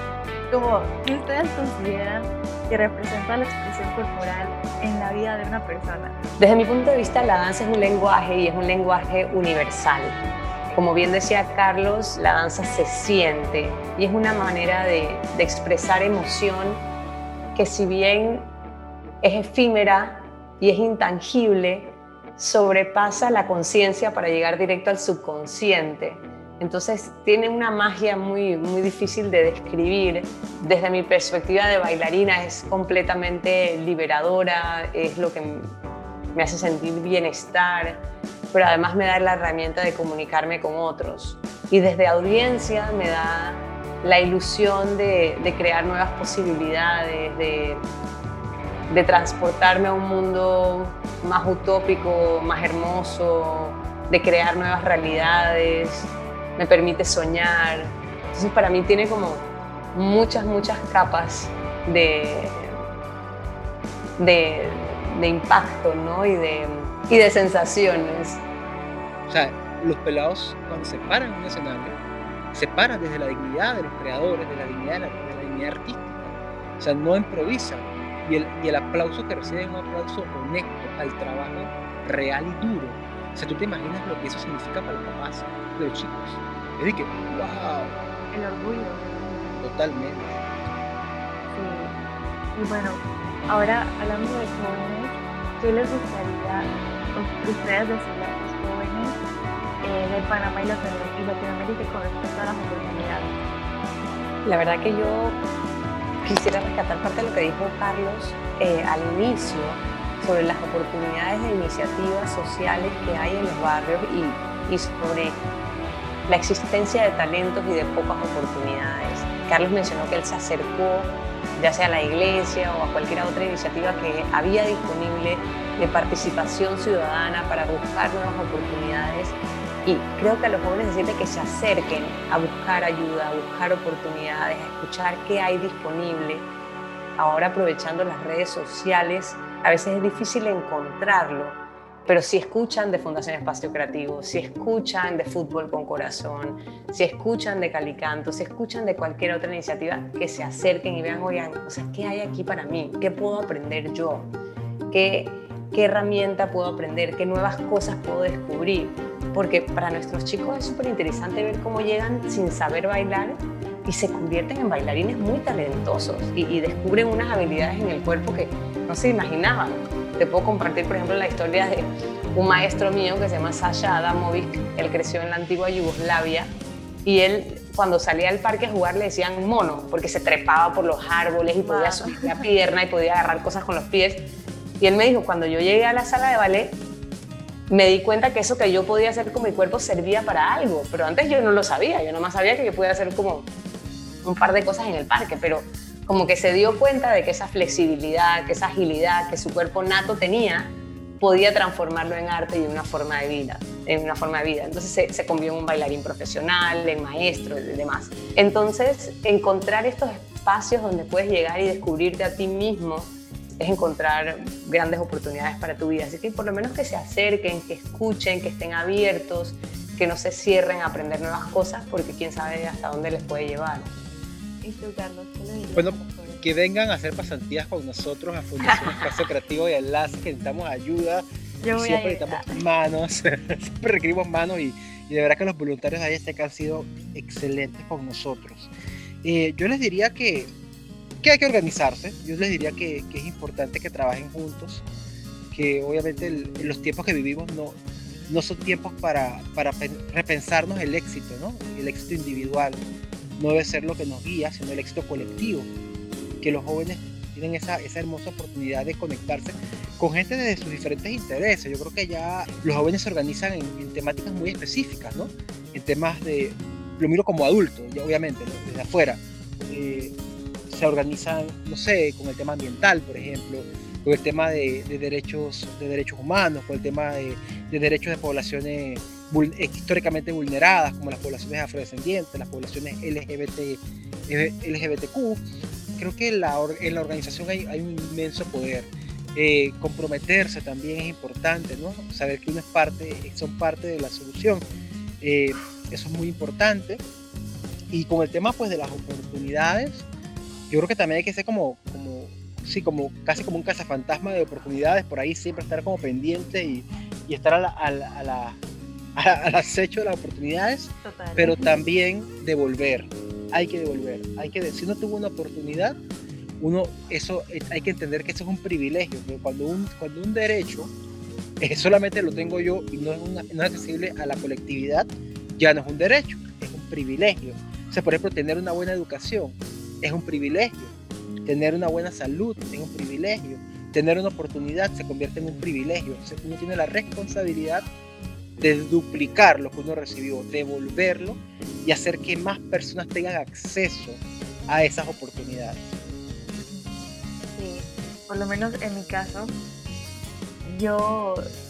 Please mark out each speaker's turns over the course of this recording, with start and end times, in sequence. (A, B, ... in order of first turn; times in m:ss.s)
0:00.5-0:06.2 A
0:06.4-0:10.2 B
0:10.7-0:16.8 B
0:17.6-0:18.5 B
0:19.2-0:35.7 B
0:36.4-0:38.0 B
0:38.5-0:47.9 B
0:48.9-1:02.8 B
1:04.2-1:08.4 B
1:09.3-1:12.0 C
1:12.5-1:28.0 C
1:28.3-1:29.6 A
1:29.6-1:30.4 C
1:31.5-1:32.0 A
1:32.5-1:39.2 A
1:39.8-1:43.3 A
1:44.4-1:45.4 B
1:46.2-1:55.4 B
1:56.3-2:16.5 B
2:17.2-2:34.3 B
2:34.9-3:06.8 B
3:01.6-3:02.5 A
3:07.7-3:13.5 B
3:14.2-3:43.9 B
3:44.6-3:46.4 A
3:45.8-3:58.7 C
3:48.7-3:49.1 B
3:51.6-3:52.6 A
3:59.2-4:00.5 C
4:01.2-4:04.8 C
4:05.5-4:12.8 C
4:13.4-4:15.7 C
4:16.4-4:30.1 C
4:30.7-4:45.4 C
4:46.0-4:54.6 C
4:55.2-4:57.0 C
4:57.9-5:00.1 C
5:00.7-5:08.6 C
5:09.2-5:16.0 C
5:11.0-5:11.8 A
5:16.6-5:20.9 C
5:21.6-5:30.9 C
5:31.4-5:37.9 C
5:38.6-5:45.9 C
5:46.7-5:49.6 A
5:50.6-5:51.5 A